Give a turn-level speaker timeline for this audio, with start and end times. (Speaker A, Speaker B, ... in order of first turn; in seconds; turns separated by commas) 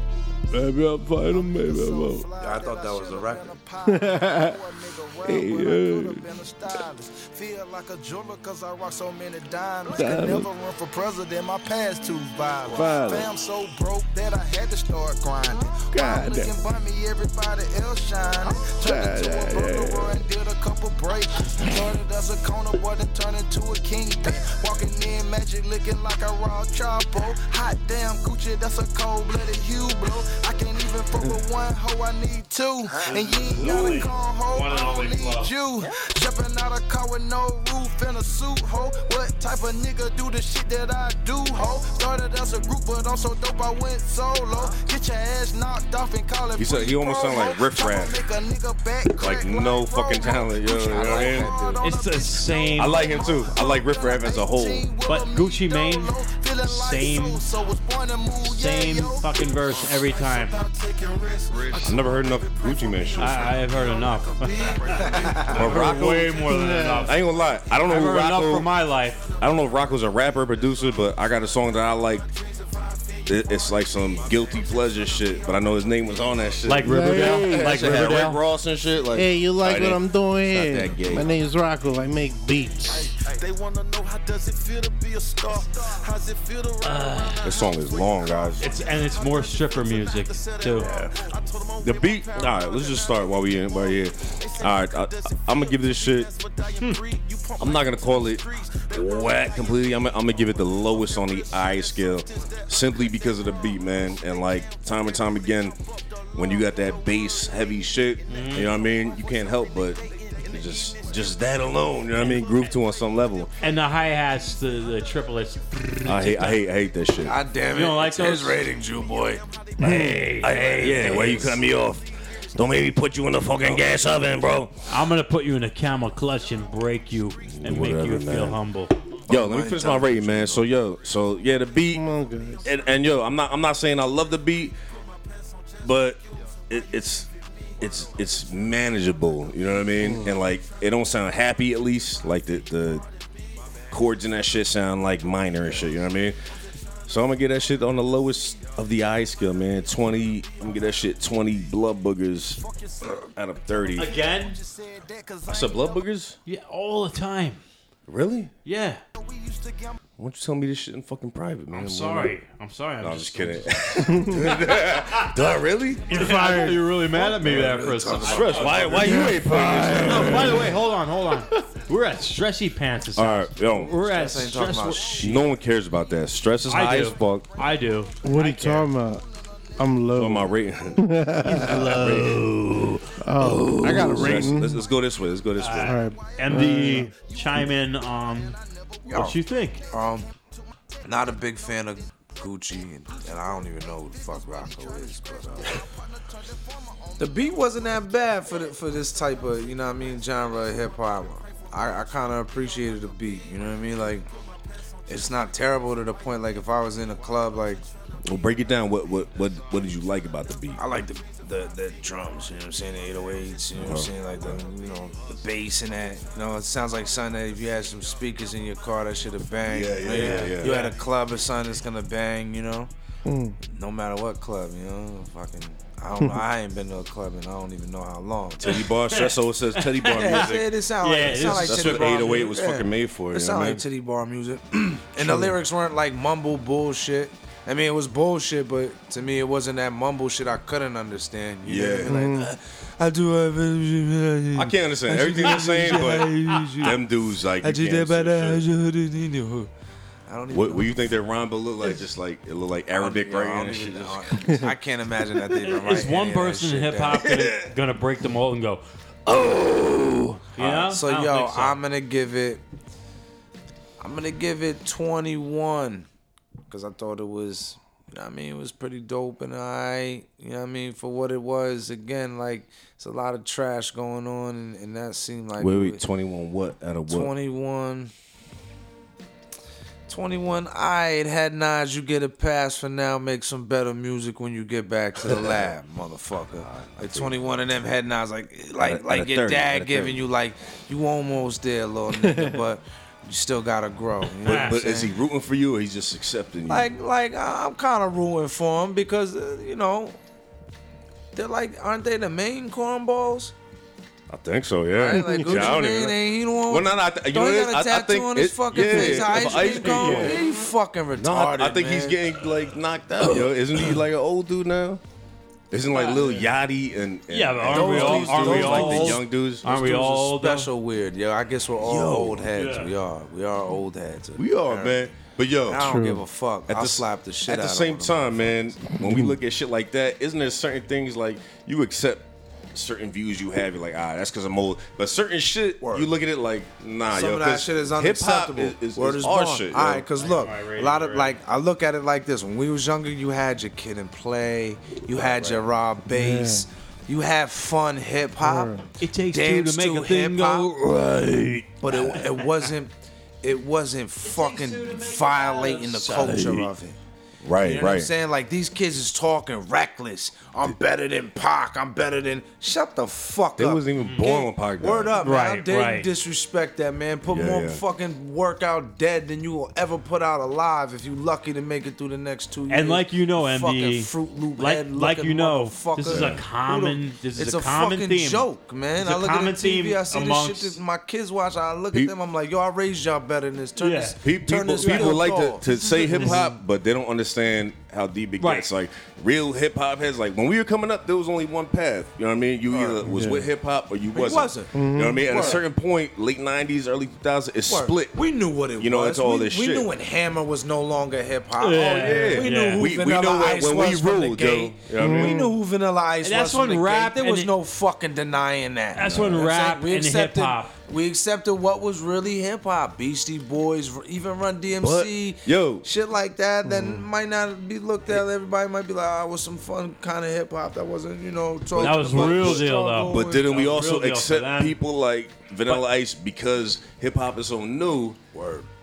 Speaker A: 0.5-2.3, Speaker B: 1.2-66.3, Speaker C: 2.4-3.6, Speaker D: 3.9-4.6, Speaker D: 5.2-5.8, Speaker A: 5.3-6.2, Speaker D: 9.9-10.5, Speaker D: 12.7-13.3, Speaker D: 15.9-16.5, Speaker D: 18.6-20.2, Speaker E: 33.0-35.5, Speaker A: 46.6-48.2, Speaker A: 49.2-51.5, Speaker C: 50.8-51.8, Speaker E: 51.8-53.3, Speaker A: 52.8-55.0, Speaker E: 55.0-57.4, Speaker E: 58.4-60.5, Speaker A: 61.8-63.5, Speaker E: 63.2-64.9, Speaker A: 65.4-66.4, Speaker E: 65.5-67.2, Speaker D: 65.6-67.2, Speaker A: 67.0-68.7, Speaker E: 67.8-69.3, Speaker A: 69.4-72.3, Speaker B: 72.2-76.6, Speaker A: 73.3-81.3, Speaker E: 76.6-78.4, Speaker D: 76.8-77.9, Speaker D: 79.1-83.2, Speaker B: 82.9-104.5, Speaker E: 86.8-87.4, Speaker A: 87.4-88.6, Speaker E: 88.6-90.9, Speaker A: 91.8-96.3, Speaker E: 96.7-97.0, Speaker A: 97.6-105.8, Speaker A: 106.3-113.5, Speaker B: 106.4-107.4, Speaker E: 108.3-108.8, Speaker B: 110.1-110.9, Speaker E: 112.2-112.5, Speaker E: 113.6-116.6, Speaker A: 116.0-117.4, Speaker C: 117.2-119.4, Speaker E: 117.7-118.7, Speaker E: 119.8-121.4, Speaker D: 119.8-120.3, Speaker A: 119.8-124.8, Speaker C: 120.7-121.6, Speaker E: 124.9-129.0, Speaker A: 127.4-128.6, Speaker C: 129.3-130.7, Speaker A: 129.3-132.1, Speaker D: 131.9-132.7, Speaker A: 132.6-134.8, Speaker A: 135.8-143.1, Speaker D: 140.0-140.3, Speaker A: 143.9-146.4, Speaker A: 147.1-152.6, Speaker B: 152.6-156.1, Speaker A: 153.2-154.3, Speaker E: 154.0-154.6, Speaker A: 155.5-156.4, Speaker E: 156.5-157.6, Speaker A: 158.1-158.5, Speaker E: 158.7-159.0, Speaker B: 159.2-160.0, Speaker A: 160.2-162.4, Speaker E: 161.7-163.7, Speaker A: 163.0-166.1, Speaker D: 164.1-164.7, Speaker E: 165.0-165.3, Speaker D: 166.1-166.9, Speaker E: 166.1-169.3, Speaker C: 167.1-169.0, Speaker A: 167.4-170.7, Speaker D: 169.0-170.7, Speaker E: 170.0-175.2, Speaker A: 173.2-173.9, Speaker C: 173.9-175.5, Speaker A: 175.2-177.5, Speaker E: 176.7-178.9, Speaker D: 178.2-179.2, Speaker D: 179.8-182.3, Speaker A: 180.2-181.1, Speaker E: 181.4-184.1, Speaker A: 181.6-182.5, Speaker D: 183.2-184.9, Speaker A: 183.5-186.0, Speaker E: 185.6-188.6, Speaker D: 185.8-187.1, Speaker B: 186.0-186.3, Speaker B: 187.2-187.5, Speaker C: 189.1-189.4, Speaker E: 189.1-189.8, Speaker C: 189.9-190.3, Speaker C: 191.1-195.8, Speaker C: 197.2-204.3, Speaker C: 205.1-207.8, Speaker A: 208.3-210.8, Speaker C: 210.8-222.9, Speaker A: 213.8-214.6, Speaker A: 219.7-220.8, Speaker E: 220.2-221.0, Speaker D: 223.2-223.6, Speaker C: 223.7-228.8, Speaker A: 228.6-233.8, Speaker E: 228.7-232.5, Speaker C: 230.1-247.0, Speaker D: 235.2-235.6, Speaker A: 241.7-242.2, Speaker D: 242.1-242.5, Speaker A: 244.6-248.7, Speaker E: 245.7-246.9, Speaker C: 247.6-249.7, Speaker C: 250.3-250.9, Speaker A: 250.5-254.6, Speaker C: 252.9-257.3, Speaker E: 255.6-258.8, Speaker A: 257.3-257.6, Speaker A: 259.3-260.6, Speaker E: 260.6-261.8, Speaker C: 260.6-262.6, Speaker C: 264.0-266.1, Speaker C: 266.7-276.1, Speaker A: 275.6-277.3, Speaker C: 277.1-278.1, Speaker C: 280.1-295.2, Speaker A: 285.3-285.6, Speaker A: 286.5-287.5, Speaker A: 288.8-290.3, Speaker D: 292.1-292.6, Speaker E: 294.4-294.8, Speaker A: 294.5-296.9, Speaker C: 296.7-300.2, Speaker C: 301.4-303.5, Speaker A: 304.3-310.4, Speaker C: 304.9-312.3, Speaker D: 305.1-305.8, Speaker D: 309.5-310.3, Speaker A: 311.2-315.0, Speaker A: 315.7-320.0, Speaker E: 315.9-316.4, Speaker E: 317.3-320.7, Speaker C: 317.7-325.1, Speaker A: 321.8-322.5, Speaker E: 322.6-322.9, Speaker A: 324.4-325.9, Speaker C: 325.7-328.4, Speaker D: 325.8-326.2, Speaker A: 326.7-340.1, Speaker D: 329.0-329.4, Speaker C: 335.8-336.1, Speaker C: 337.1-348.8, Speaker E: 340.2-341.4, Speaker A: 345.1-345.7, Speaker D: 346.1-346.7, Speaker D: 348.4-348.9, Speaker E: 349.0-352.7, Speaker C: 349.3-350.7, Speaker A: 351.0-351.6, Speaker C: 351.8-352.9, Speaker C: 353.4-357.0, Speaker E: 354.2-356.6, Speaker A: 356.3-356.7, Speaker A: 357.4-358.1, Speaker C: 357.6-386.5, Speaker A: 363.6-365.2, Speaker E: 364.0-364.3, Speaker E: 365.2-366.1, Speaker A: 367.3-367.8, Speaker E: 372.7-378.5, Speaker A: 376.1-376.4, Speaker E: 379.0-380.8, Speaker E: 383.8-384.2, Speaker A: 384.2-398.2, Speaker E: 384.8-385.2, Speaker E: 385.7-386.4, Speaker E: 388.4-388.7, Speaker C: 392.7-393.1, Speaker D: 393.0-393.5, Speaker C: 394.1-395.6, Speaker D: 394.7-395.6, Speaker C: 397.6-423.6, Speaker A: 398.8-399.9, Speaker E: 401.6-402.9, Speaker A: 402.0-405.5, Speaker D: 405.0-405.6, Speaker E: 406.2-407.5, Speaker E: 408.9-410.7, Speaker A: 409.0-409.5, Speaker A: 414.8-415.9, Speaker D: 416.6-417.1, Speaker A: 421.8-428.2, Speaker E: 421.8-424.8, Speaker C: 428.3-428.7